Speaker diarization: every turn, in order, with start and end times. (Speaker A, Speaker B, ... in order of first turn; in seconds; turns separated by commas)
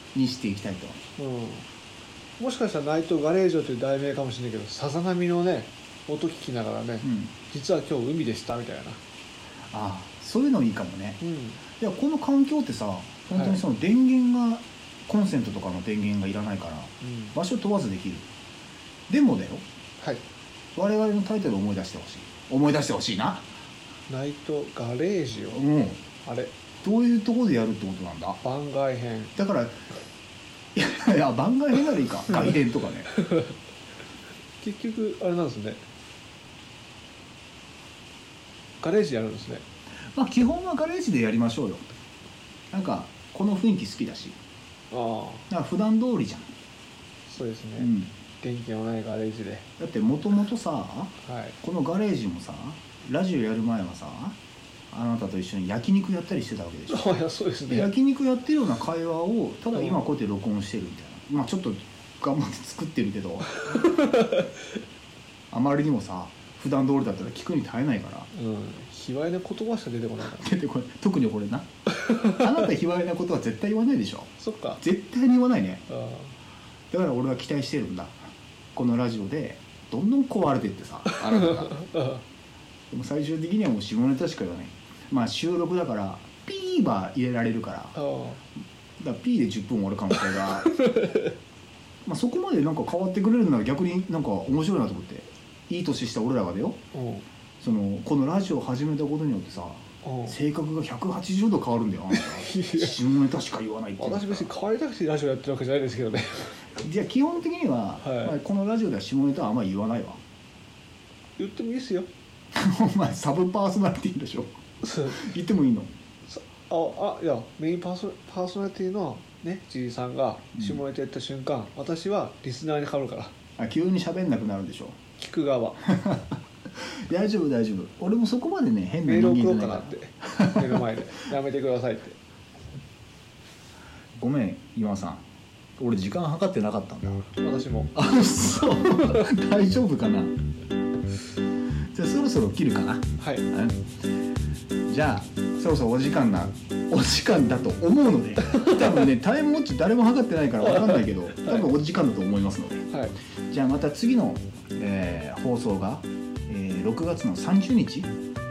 Speaker A: 0.1-1.0, Speaker B: 1.2-1.7, Speaker B: 2.4-9.0, Speaker A: 7.0-7.3, Speaker A: 9.7-11.2, Speaker B: 11.2-11.8, Speaker A: 11.7-18.3, Speaker B: 13.1-13.8, Speaker B: 17.0-17.4, Speaker A: 19.1-19.6, Speaker B: 20.0-20.2, Speaker A: 20.8-23.5, Speaker B: 24.1-26.5, Speaker A: 25.5-26.1, Speaker A: 26.8-28.4, Speaker B: 28.4-29.4, Speaker A: 29.4-29.8, Speaker A: 30.7-33.1, Speaker B: 32.3-32.6, Speaker B: 34.6-35.8, Speaker B: 38.8-39.6, Speaker A: 40.1-41.9, Speaker A: 42.7-44.4, Speaker B: 44.9-45.5, Speaker A: 45.5-46.5, Speaker B: 47.3-49.8, Speaker A: 47.8-48.1, Speaker A: 49.8-54.4, Speaker B: 51.2-51.6, Speaker A: 54.9-57.1, Speaker B: 56.9-58.0, Speaker A: 57.7-63.5, Speaker B: 59.7-60.2, Speaker B: 63.5-64.5, Speaker A: 65.5-68.3, Speaker B: 68.3-70.7, Speaker A: 70.3-71.7, Speaker B: 72.0-72.7, Speaker A: 72.4-75.8, Speaker B: 74.3-74.8, Speaker B: 75.9-76.3, Speaker A: 76.9-78.2, Speaker A: 78.8-81.8, Speaker B: 81.1-82.2, Speaker A: 82.9-88.0, Speaker B: 88.0-88.4, Speaker A: 89.0-90.7, Speaker B: 90.1-91.3, Speaker A: 92.0-96.8, Speaker B: 96.9-97.3, Speaker A: 97.6-104.6, Speaker B: 100.0-100.4, Speaker B: 102.1-106.8, Speaker A: 106.8-110.2, Speaker B: 108.0-108.4, Speaker B: 111.4-112.1, Speaker A: 112.5-114.5, Speaker B: 114.8-115.5, Speaker A: 115.4-115.9, Speaker B: 116.3-123.5, Speaker A: 123.6-125.0, Speaker B: 125.1-125.8, Speaker A: 125.8-126.2, Speaker A: 126.8-131.2, Speaker B: 129.0-132.2, Speaker A: 134.2-135.2, Speaker A: 135.8-137.3, Speaker B: 137.3-139.3, Speaker A: 137.9-140.3, Speaker A: 141.9-143.8, Speaker B: 143.1-143.5, Speaker A: 144.9-152.9, Speaker B: 148.4-149.1, Speaker B: 150.6-151.7, Speaker B: 152.9-153.1, Speaker A: 153.5-158.1